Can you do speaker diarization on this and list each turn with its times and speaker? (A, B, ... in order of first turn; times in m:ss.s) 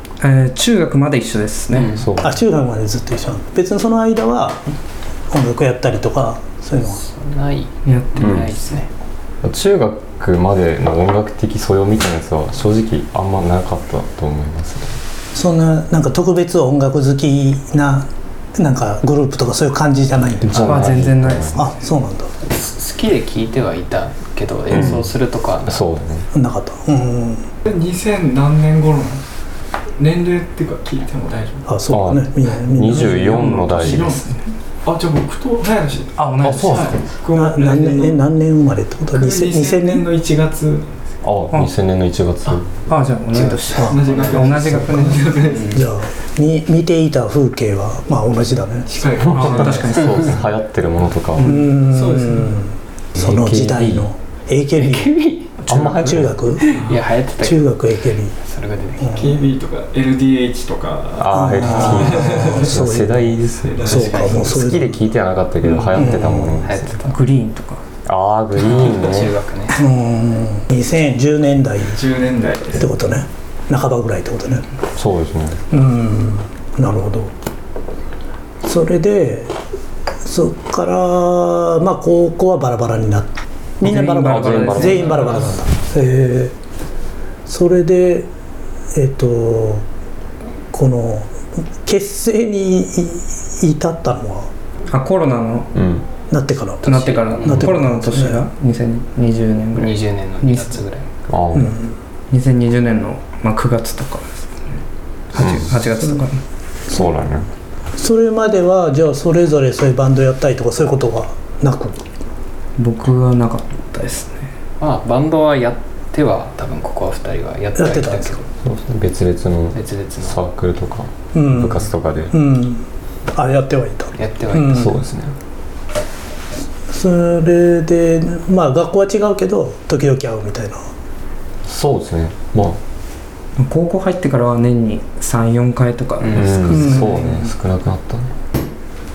0:00.2-0:01.9 A
0:01.7-0:02.0 B
0:01.9-0:02.4 C
0:02.2-0:04.6 D
0:05.3-0:07.0 D
0:06.8-0:08.9 B
0:07.8-0:08.4 A
0:08.2-0:08.5 C
0:09.4-0:14.9 C
0:15.3-0:20.9 D
0:20.5-0:21.6 C
0:20.5-0:21.7 A
0:21.5-0:22.3 D
0:22.4-0:25.8 B
0:24.7-0:25.1 C
0:25.7-0:26.3 C
0:26.3-0:27.5 D
0:27.7-0:29.2 E
0:30.0-0:31.7 E
0:31.6-0:33.6 D
0:31.9-0:34.1 C
0:33.0-0:34.5 A
0:33.7-0:34.3 E
0:34.8-0:38.2 E
0:36.2-0:37.0 A
0:36.4-0:37.0 C
0:37.3-0:40.0 D
0:39.1-0:41.0 E
0:41.2-0:42.7 C
0:42.5-0:45.4 A
0:43.3-0:44.5 B
0:43.8-0:45.8 E
0:43.8-0:44.1 D
0:45.4-0:45.8 B
0:45.7-0:48.9 D
0:48.9-0:50.0 E
0:49.2-0:51.6 C
0:49.2-0:50.4 A
0:51.4-0:51.7 A
0:51.4-0:55.1 D
0:51.8-0:52.6 E
0:53.2-0:54.1 C
0:54.8-0:55.6 B
0:55.6-0:56.0 E
0:55.7-0:56.3 C
0:55.9-0:56.7 D
0:56.6-0:57.7 B
0:56.7-0:57.0 E
0:57.4-0:58.4 D
0:58.4-0:59.2 B
0:59.0-0:59.4 D
0:59.1-1:02.8 E
1:01.2-1:06.9 C
1:01.3-1:05.1 D
1:01.6-1:02.2 B
1:03.6-1:04.4 E
1:03.9-1:04.5 B
1:05.6-1:07.2 B
1:05.9-1:06.6 D
1:07.0-1:07.8 A
1:08.0-1:09.4 C
1:08.6-1:09.8 B
1:09.7-1:12.0 D
1:11.9-1:12.9 E
1:12.8-1:14.7 D
1:14.9-1:15.6 C
1:15.7-1:17.3 D
1:18.6-1:19.6 D
1:20.2-1:26.5 D
1:23.8-1:25.6 A
1:23.8-1:25.5 C
1:27.5-1:28.3 D
1:28.9-1:29.8 D
1:30.7-1:34.5 D
1:34.9-1:35.7 A
1:35.7-1:36.0 C
1:36.3-1:38.5 D
1:36.8-1:37.7 B
1:36.8-1:40.8 A
1:39.7-1:41.1 B
1:41.3-1:41.8 C
1:41.5-1:41.9 D
1:42.3-1:44.8 A
1:45.3-1:46.4 A
1:45.4-1:45.7 C
1:46.0-1:46.2 D
1:46.9-1:47.5 C
1:48.0-1:52.0 D
1:52.8-1:54.5 A
1:54.8-1:58.5 B
1:57.7-1:58.4 D
1:58.6-2:02.3 C
1:59.7-2:00.4 B
2:01.3-2:05.0 D
2:04.2-2:04.8 B
2:04.6-2:05.3 C
2:06.9-2:10.9 D
2:11.6-2:12.8 C
2:13.6-2:17.1 A
2:16.2-2:16.9 B
2:16.3-2:18.3 C
2:16.6-2:17.3 D